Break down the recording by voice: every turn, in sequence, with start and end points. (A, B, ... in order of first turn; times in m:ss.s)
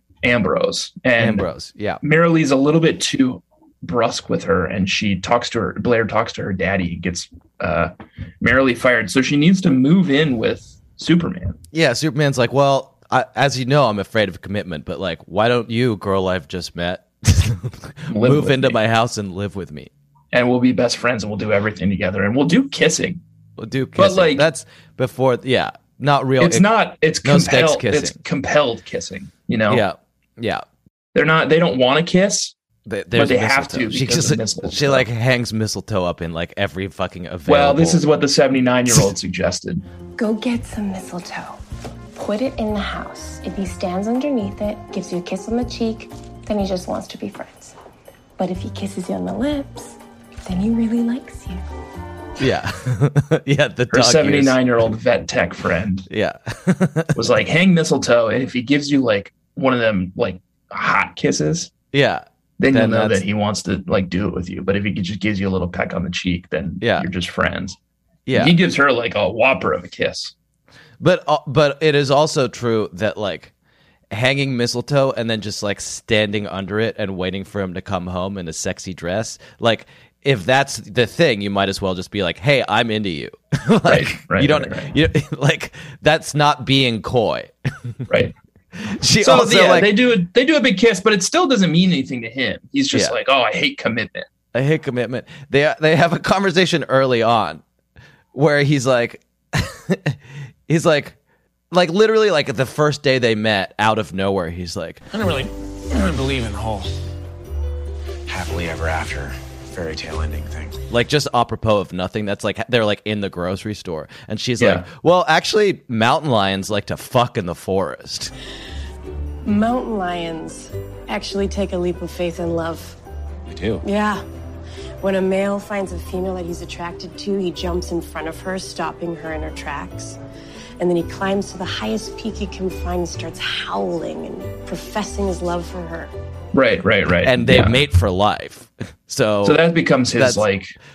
0:00.2-0:01.5 A
0:01.2-0:02.0 B
0:02.0-0:11.6 A
0:11.7-0:19.9 B
0:18.1-0:18.8 A
0:20.3-0:23.2 A
0:23.6-0:28.2 B
0:24.0-0:24.5 A
0:26.4-0:29.8 A
0:29.7-0:30.6 B
0:31.2-0:32.6 A
0:32.9-0:38.0 B
0:33.1-0:35.1 A
0:37.5-0:39.8 A
0:40.2-0:41.6 C
0:42.2-0:47.8 C
0:48.4-0:51.6 C
0:52.4-0:54.6 B
0:53.9-0:56.1 A
0:56.1-0:57.2 B
0:57.2-1:01.7 A
1:01.9-1:03.2 B
1:02.6-1:07.8 A
1:06.8-1:07.1 B
1:08.3-1:08.6 B
1:08.3-1:10.3 A
1:11.0-1:13.5 B
1:14.1-1:28.0 B
1:23.8-1:24.9 A
1:28.8-1:30.0 B
1:29.2-1:34.3 A
1:32.9-1:33.2 B
1:34.5-1:37.6 B
1:38.3-1:41.2 B
1:41.7-1:45.0 B
1:45.1-1:47.0 D
1:48.3-1:50.8 D
1:50.9-1:58.3 B
1:54.6-1:54.9 A
1:59.4-2:03.0 E
2:03.5-2:03.8 D
2:03.8-2:04.2 E
2:05.0-2:10.2 E
2:10.8-2:16.1 E
2:16.5-2:17.8 A
2:17.2-2:20.5 B
2:19.4-2:20.8 A